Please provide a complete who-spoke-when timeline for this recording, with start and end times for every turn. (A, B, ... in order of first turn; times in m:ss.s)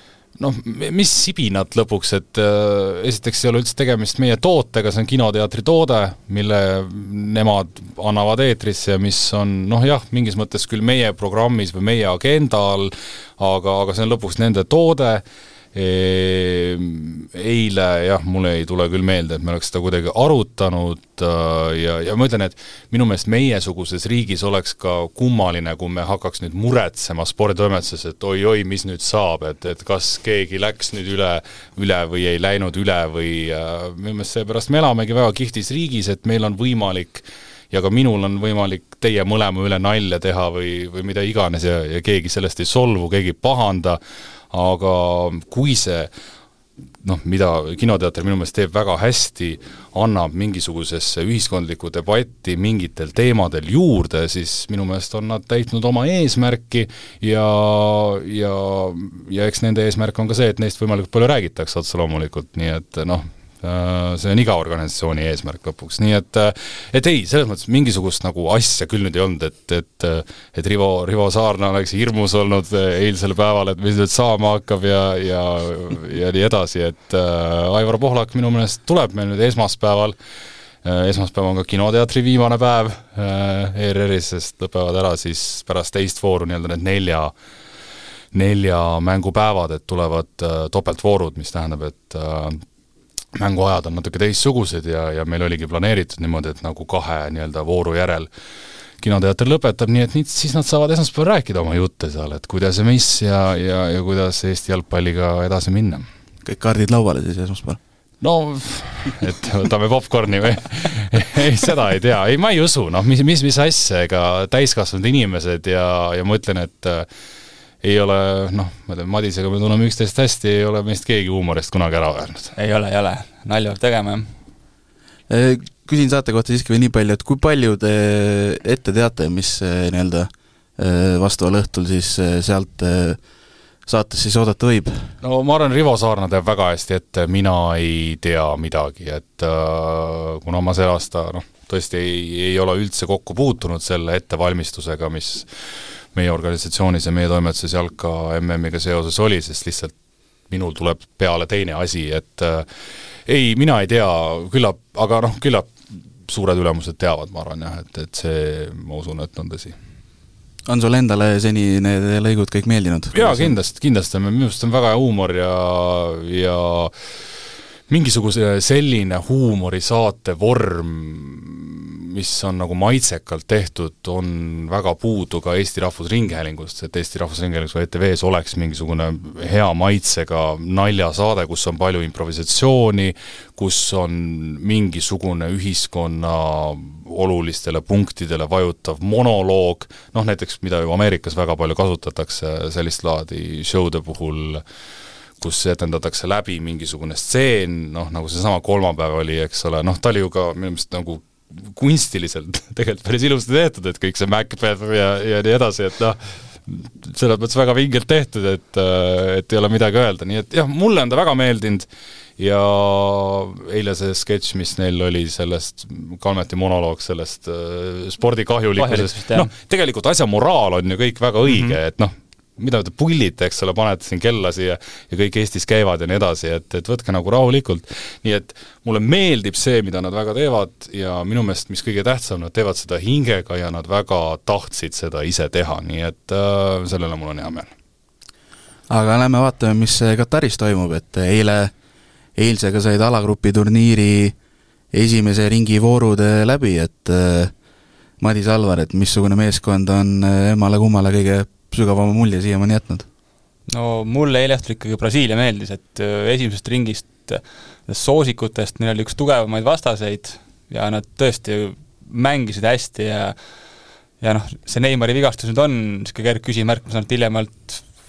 0:00.4-0:15.2 A
0:15.7-0:44.0 A
0:44.5-0:46.1 A
0:47.0-1:20.1 A
1:20.8-1:27.3 A
1:28.3-1:32.6 A
1:33.3-1:38.3 A
1:39.0-1:46.0 A
1:46.4-1:47.8 B
1:48.2-1:57.0 A
1:57.8-2:02.5 A
2:02.5-2:04.3 C
2:05.3-2:13.2 B
2:13.8-2:15.1 B
2:15.2-2:25.5 A
2:26.1-2:29.9 A
2:30.5-2:32.6 A
2:33.2-2:35.7 A
2:36.3-2:39.7 A
2:40.6-2:43.5 B
2:43.1-2:46.9 A
2:47.9-3:14.6 A
3:15.4-3:31.9 A
3:32.4-3:57.7 A
3:38.8-3:39.5 C
3:41.5-3:41.7 C
3:58.9-4:01.7 B
4:02.4-4:04.3 B
4:04.9-4:07.5 B
4:08.2-4:13.0 B
4:13.7-4:23.4 C
4:24.2-4:27.8 C